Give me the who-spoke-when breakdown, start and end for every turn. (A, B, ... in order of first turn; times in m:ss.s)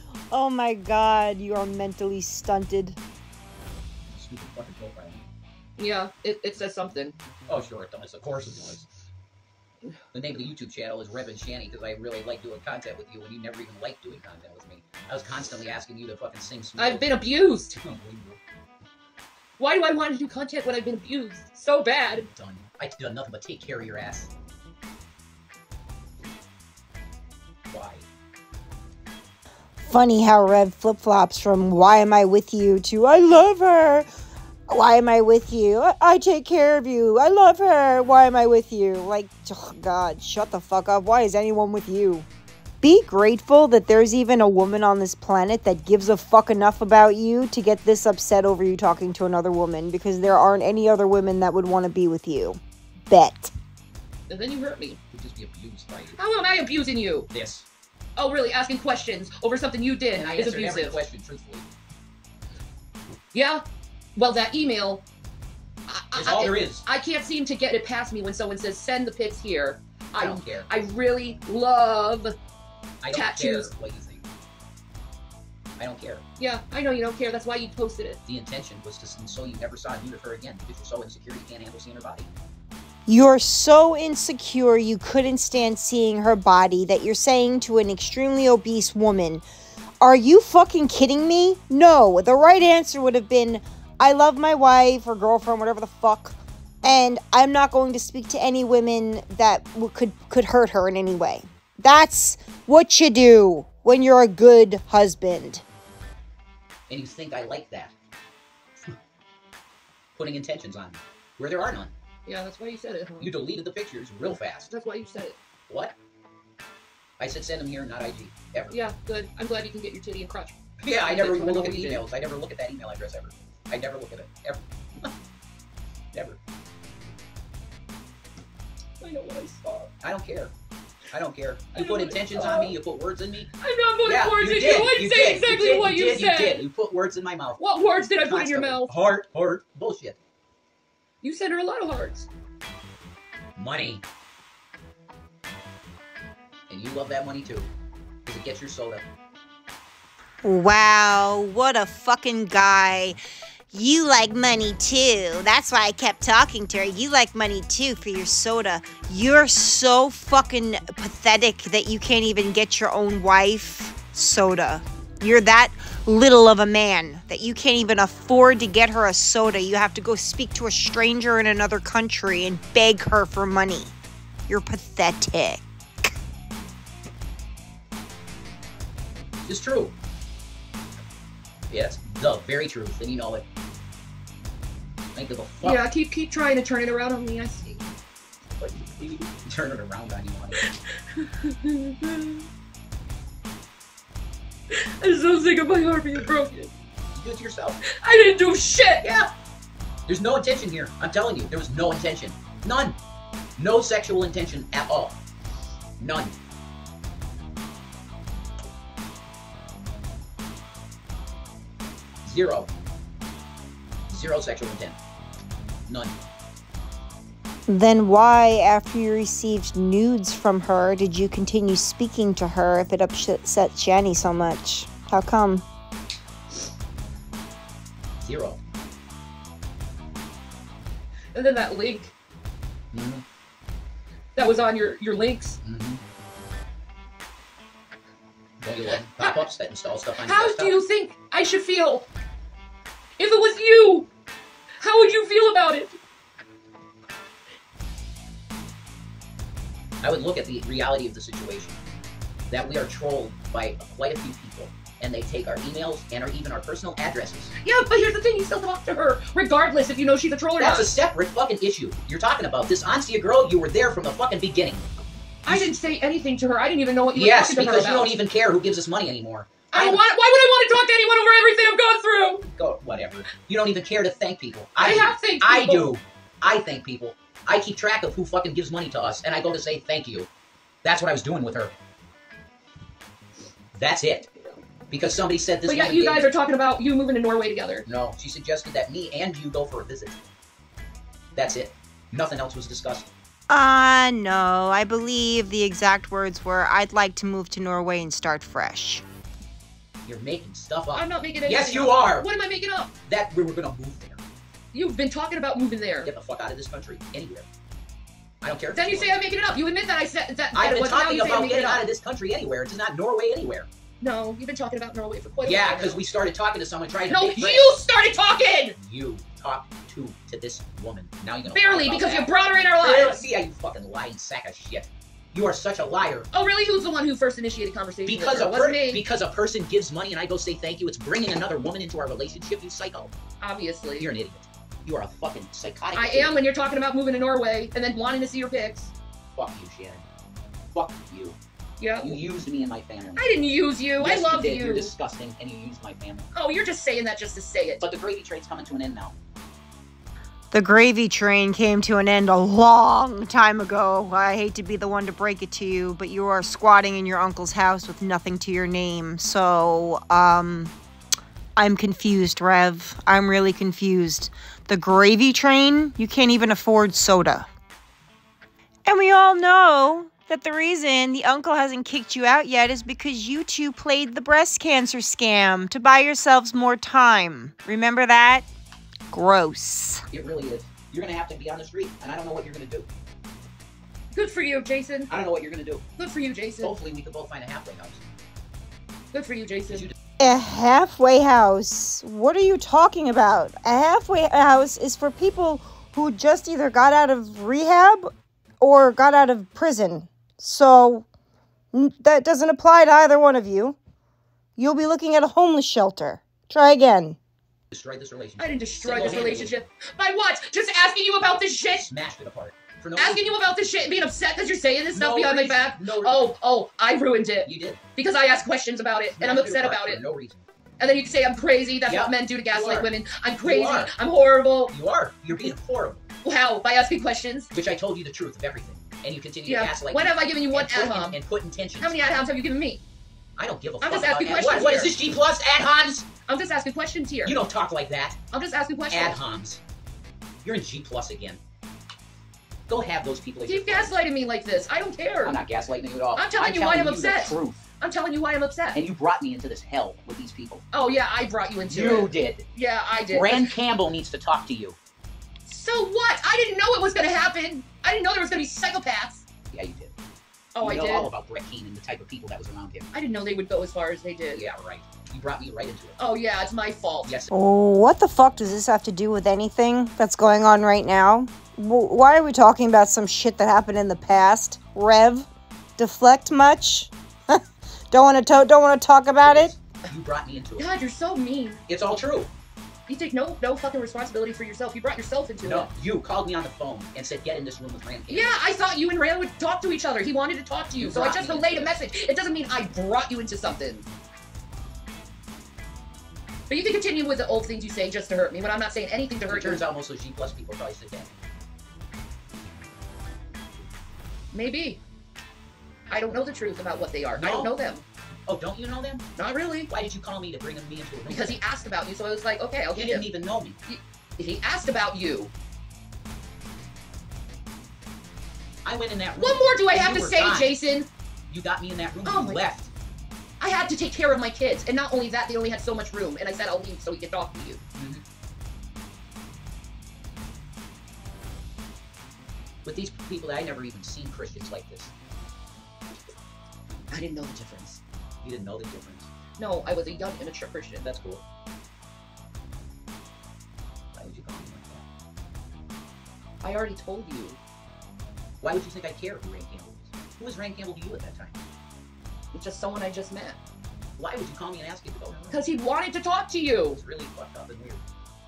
0:00.3-0:03.0 A
0:04.1-0:05.2 B
0:05.8-0:07.2 C
0:07.5-0:08.9 B
0:10.1-0:18.4 B
0:16.8-0:17.7 C
0:19.6-0:22.3 C
0:22.3-0:24.3 B
0:27.7-0:28.0 B
0:29.8-0:34.1 A
0:34.7-0:42.3 A
0:42.8-0:53.5 A
0:54.3-0:55.0 C
0:55.1-0:56.2 B
0:56.2-0:57.3 C
0:57.3-0:57.6 B
0:58.2-1:01.0 C
1:00.1-1:01.6 B
1:03.3-1:03.6 C
1:04.2-1:05.0 C
1:05.9-1:12.3 C
1:06.1-1:06.8 B
1:10.2-1:10.7 B
1:13.0-1:14.2 B
1:13.1-1:13.7 C
1:15.8-1:16.2 B
1:16.4-1:18.2 C
1:18.2-1:22.3 B
1:23.1-1:29.4 A
1:30.0-1:45.6 A
1:46.9-1:47.9 B
1:50.1-1:51.9 B
1:52.2-1:53.3 C
1:53.2-1:54.7 B
1:54.7-1:55.4 C
1:55.7-1:55.9 B
1:57.2-1:58.8 B
1:58.7-2:02.0 C
2:00.8-2:05.1 B
2:06.1-2:06.4 B
2:09.0-2:09.9 C
2:10.0-2:10.5 B
2:11.1-2:13.5 B
2:11.7-2:12.7 C
2:13.6-2:16.6 C
2:14.0-2:20.2 B
2:17.6-2:18.9 C
2:21.2-2:22.3 C
2:23.6-2:24.0 B
2:26.7-2:27.7 B
2:28.2-2:29.0 B
2:30.4-2:33.2 A
2:33.7-2:53.9 A
2:54.5-2:55.6 A
2:59.4-2:59.9 B
3:01.7-3:03.4 B
3:05.1-3:05.8 B
3:05.6-3:07.8 C
3:08.5-3:10.6 B
3:10.6-3:12.4 C
3:14.7-3:16.7 C
3:17.1-3:17.8 B
3:17.9-3:19.0 C
3:19.0-3:19.3 B
3:20.1-3:23.0 B
3:23.6-3:25.2 B
3:26.0-3:26.3 B
3:32.2-3:32.7 B
3:34.1-3:35.0 B
3:35.9-3:36.1 B
3:37.7-3:45.6 A
3:48.2-3:48.6 B
3:51.3-3:52.1 C
3:52.9-3:53.2 B
3:54.4-3:55.6 C
3:55.6-3:56.0 B
3:58.6-4:00.8 B
4:00.2-4:02.0 C
4:03.2-4:04.1 C
4:04.8-4:06.0 C
4:10.0-4:11.8 B
4:12.5-4:17.6 B
4:17.6-4:20.9 C
4:20.6-4:24.8 B
4:25.4-4:25.7 B
4:25.5-4:28.2 C
4:27.2-4:30.0 B
4:29.7-4:32.5 C
4:32.5-4:40.3 B
4:34.8-4:36.0 C
4:40.8-4:41.7 B
4:43.7-4:44.3 B
4:44.3-4:44.6 C
4:44.9-4:46.3 B
4:45.7-4:47.8 C
4:47.8-4:50.2 B
4:51.4-4:53.1 B
4:53.5-4:59.0 A
5:00.0-5:02.3 B
5:00.9-5:02.9 C
5:03.1-5:04.2 B
5:04.7-5:06.1 C
5:06.0-5:07.5 B
5:08.4-5:09.2 B
5:08.7-5:11.8 C
5:10.5-5:13.7 B
5:14.0-5:16.0 C
5:15.2-5:17.7 B
5:17.1-5:18.8 C
5:18.8-5:22.3 B
5:21.5-5:23.2 C
5:22.8-5:26.3 B
5:26.3-5:29.0 C
5:28.0-5:33.1 B
5:33.4-5:34.1 C
5:34.0-5:36.4 B
5:35.9-5:38.9 C
5:39.3-5:40.0 B
5:40.7-5:41.4 B
5:41.8-5:42.2 C
5:42.0-5:43.4 B
5:43.2-5:44.9 C
5:44.0-5:46.3 B
5:46.3-5:47.8 C
5:47.8-5:49.1 B
5:50.5-6:00.7 A
6:01.6-6:07.5 A
6:08.8-6:18.5 A
6:19.1-6:20.0 A
6:20.1-6:22.9 B
6:24.1-6:25.1 C
6:25.1-6:25.8 B
6:26.0-6:26.7 C
6:26.6-6:28.0 B
6:29.1-6:29.9 C
6:30.2-6:38.1 A
6:38.6-6:41.0 A
6:41.7-6:43.8 A
6:44.6-6:47.2 A
6:47.7-6:49.5 B
6:48.4-6:51.9 C
6:51.8-6:53.5 B
6:53.0-7:00.0 C
6:54.9-6:56.2 B
6:57.4-6:57.8 B
6:59.2-7:00.4 B
7:00.8-7:04.7 C
7:01.9-7:02.9 B
7:03.4-7:03.9 B
7:04.7-7:06.0 B
7:06.2-7:07.5 C
7:07.5-7:12.0 B
7:09.4-7:11.2 C
7:11.8-7:12.8 C
7:13.4-7:16.1 B
7:13.8-7:14.9 C
7:16.2-7:17.4 C
7:17.2-7:18.2 B
7:18.3-7:19.2 C
7:18.9-7:19.6 B
7:20.4-7:21.4 B
7:22.7-7:23.9 B
7:23.4-7:25.4 C
7:25.2-7:27.6 B
7:26.1-7:28.8 C
7:28.7-7:30.6 B
7:30.7-7:33.5 C
7:31.7-7:32.4 B
7:33.1-7:34.8 B
7:35.5-7:39.2 C
7:39.5-7:39.9 B
7:40.5-7:41.1 C
7:40.6-7:42.9 B
7:42.9-7:44.4 C
7:44.3-7:46.0 B
7:46.0-7:47.1 C
7:47.0-7:47.3 B
7:47.3-7:59.5 A
7:59.2-8:00.7 B
8:00.6-8:01.6 C
8:01.7-8:02.3 B
8:02.9-8:05.7 C
8:05.4-8:08.4 B
8:08.1-8:13.8 C
8:10.8-8:11.8 B
8:16.5-8:19.6 C
8:19.3-8:21.1 B
8:24.3-8:24.8 C
8:25.9-8:27.8 C
8:27.2-8:27.5 B
8:28.3-8:29.1 B
8:29.2-8:29.7 C
8:29.7-8:31.4 B
8:31.1-8:33.1 C
8:32.8-8:33.6 B
8:33.7-8:35.3 C
8:38.6-8:40.5 B
8:39.2-8:40.9 C
8:41.3-8:42.7 B
8:42.0-8:42.4 C
8:43.4-8:47.6 C
8:47.8-8:48.0 B
8:52.6-8:54.9 B
8:56.9-8:57.8 C
8:58.2-8:59.1 B
8:59.4-9:00.8 C
9:00.8-9:01.2 B
9:03.9-9:04.8 B
9:06.4-9:07.4 C
9:08.4-9:11.4 B
9:12.3-9:13.4 C
9:14.0-9:15.4 B
9:15.3-9:16.8 C
9:16.7-9:17.8 B